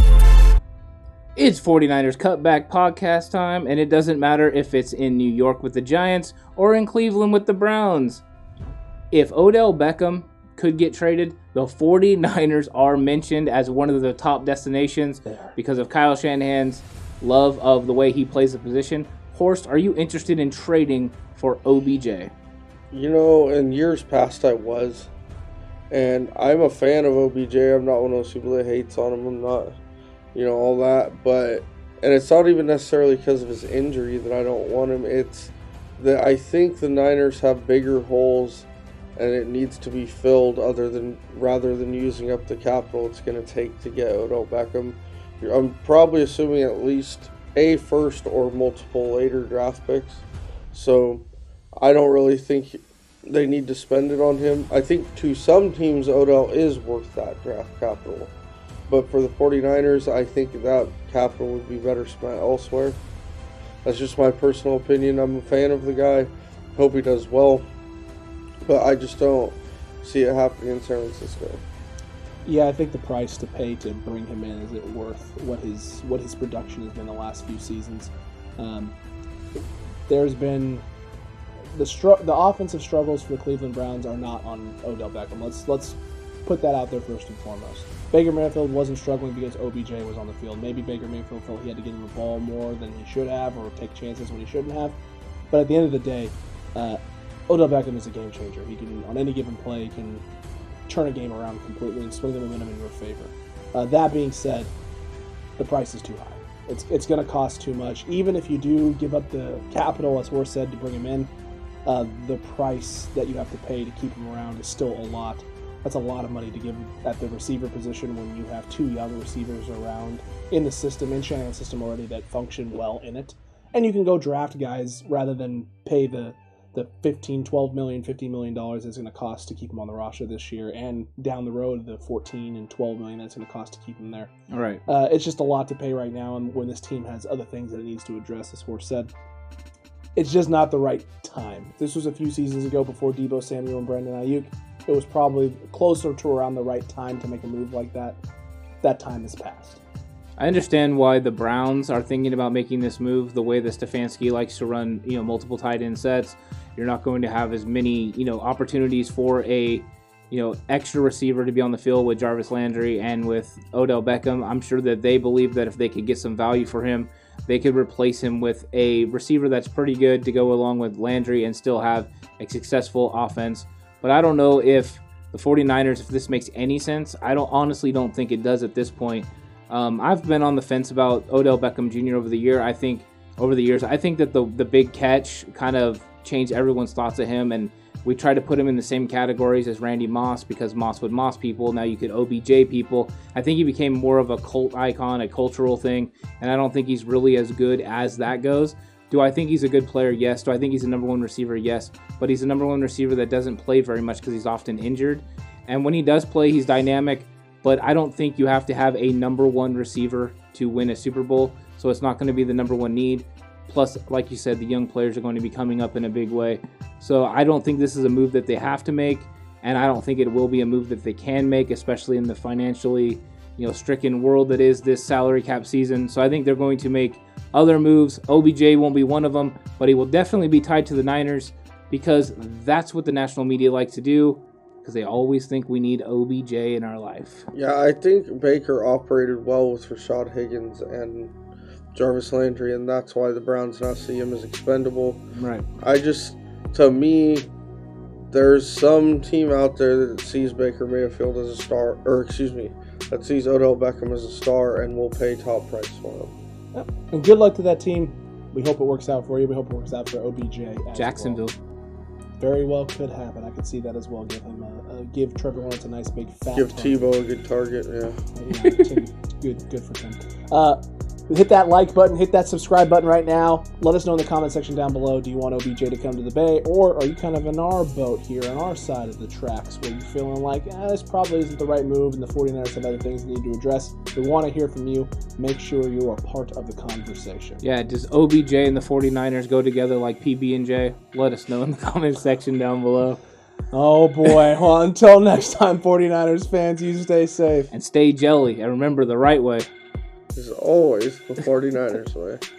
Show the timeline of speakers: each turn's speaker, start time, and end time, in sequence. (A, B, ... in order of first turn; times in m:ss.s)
0:01.4-0:08.2 A
0:09.1-0:22.3 A
0:15.3-0:15.5 B
0:22.9-0:25.1 C
0:25.9-0:29.8 C
0:30.3-0:51.3 C
0:51.8-0:58.3 C
0:58.9-1:03.0 C
1:03.8-1:07.7 C
1:08.6-1:11.6 C
1:12.4-1:19.0 B
1:19.6-1:20.8 B
1:21.7-1:35.0 B
1:35.5-1:40.2 B
1:40.9-1:44.7 B
1:45.6-1:51.3 B
1:51.8-2:14.3 B
2:14.5-2:14.8 A
2:14.9-2:19.1 B
2:20.2-2:28.2 B
2:28.8-2:29.8 B
2:30.4-3:57.4 A
3:57.5-4:01.3 C
4:01.9-4:05.2 C
4:05.3-4:05.6 A
4:05.8-4:07.5 C
4:08.3-4:16.4 C
4:16.7-4:21.5 B
4:20.9-4:21.6 A
4:22.4-4:27.1 B
4:26.5-4:28.2 C
4:28.3-4:47.6 B
4:47.6-4:53.2 A
4:53.7-4:57.7 B
4:57.7-4:59.7 A
5:00.3-5:02.4 C